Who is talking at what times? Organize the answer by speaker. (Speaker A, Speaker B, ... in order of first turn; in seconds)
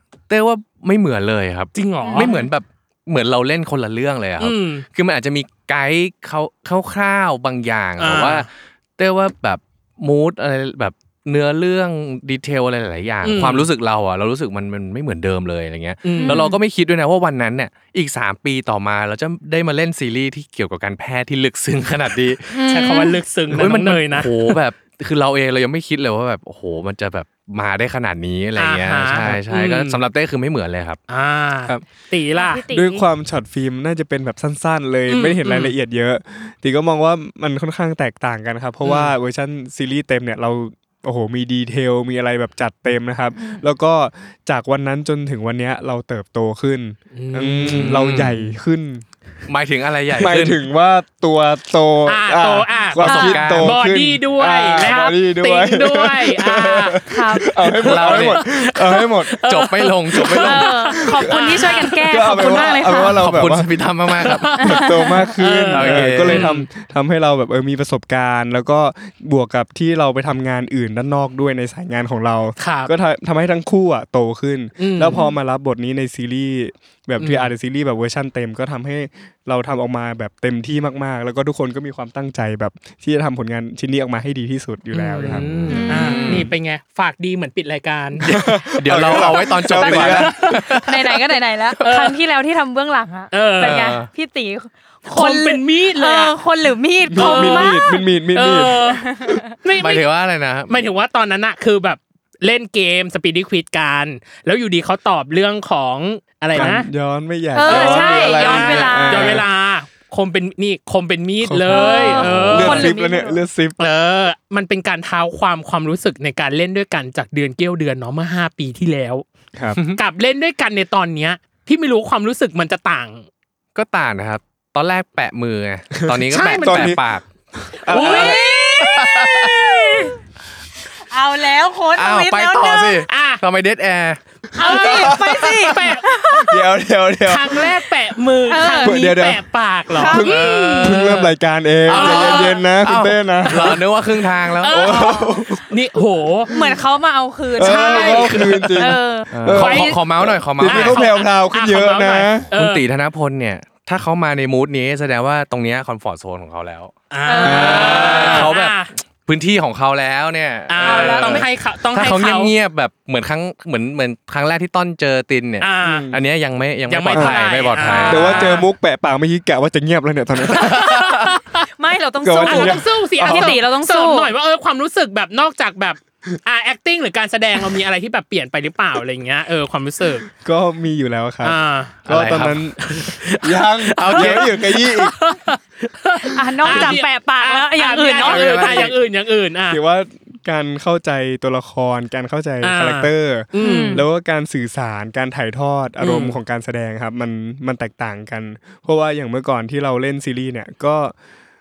Speaker A: 0.3-23.0, 23.5-31.0, 47.7-48.5, 49.5-50.6, 53.0-53.8, 57.8-58.4, 59.4-60.8, 63.0-64.5, 65.7-66.5, 85.2-86.5, 88.2-91.2, 93.6-94.1, 99.8-100.8, 112.1-112.8, 123.7-127.2, 128.8-129.7, 131.9-134.2, 135.3-135.6, 141.9-144.9, 149.3-151.0, 152.5-156.9, 157.5-168.6, 182.1-184.6
Speaker B: 1.7-2.3, 4.4-4.8, 8.0-8.5, 13.2-13.7, 16.0-16.4, 22.6-24.6, 28.6-30.0, 31.1-32.7, 35.1-35.7, 38.8-39.1, 47.1-48.0, 52.0-62.5, 64.2-66.7, 72.6-72.9, 74.8-75.2, 77.2-77.5, 84.9-88.2, 90.2-90.8, 91.8-92.2, 93.3-93.9, 95.0-96.3, 97.1-99.1, 99.6-100.1, 100.7-106.9, 107.6-112.9, 113.8-119.2, 119.9-123.3, 126.3-127.0, 127.9-129.0, 129.7-130.1, 133.0-133.4, 134.6-136.1, 137.2-141.3, 141.9-142.6, 144.6-146.5, 147.6-148.7, 149.5-149.9, 150.6-152.8, 157.1-158.9, 160.7-162.5, 165.6-166.1, 166.9-168.7, 170.4-171.7, 172.4-180.3, 181.4-181.9, 184.0-189.8, 192.6-194.1, 196.0-196.4
Speaker C: 2.0-2.5, 16.2-16.6, 22.5-23.2, 32.3-33.0, 43.4-43.6, 53.0-53.3, 57.0-57.5, 60.4-63.2, 64.5-65.3, 85.7-86.4, 89.1-98.0, 98.8-99.5, 107.5-109.4, 111.7-113.4, 127.9-129.8, 131.1-133.0, 134.5-136.6, 138.4-139.1, 139.9-141.0, 144.8-145.4, 146.5-149.9, 157.2-158.5, 160.8-161.4, 167.2-168.3, 171.7-174.3, 186.2-188.9, 193.6-194.0
Speaker D: 32.7-49.0, 50.1-59.3, 61.1-63.7, 64.5-85.4, 88.2-90.3, 97.1-98.8, 106.5-109.4, 111.4-113.8, 126.0-127.0, 127.7-128.6, 134.6-135.6, 136.2-137.7, 138.8-139.4, 139.9-143.8, 144.7-145.7, 146.5-146.8, 147.5-152.5, 157.4-158.5, 160.9-161.3, 165.8-166.2, 168.1-171.1, 172.2-173.6, 180.4-182.8, 183.4-185.2, 186.7-187.0, 188.2-188.9, 189.7-201.1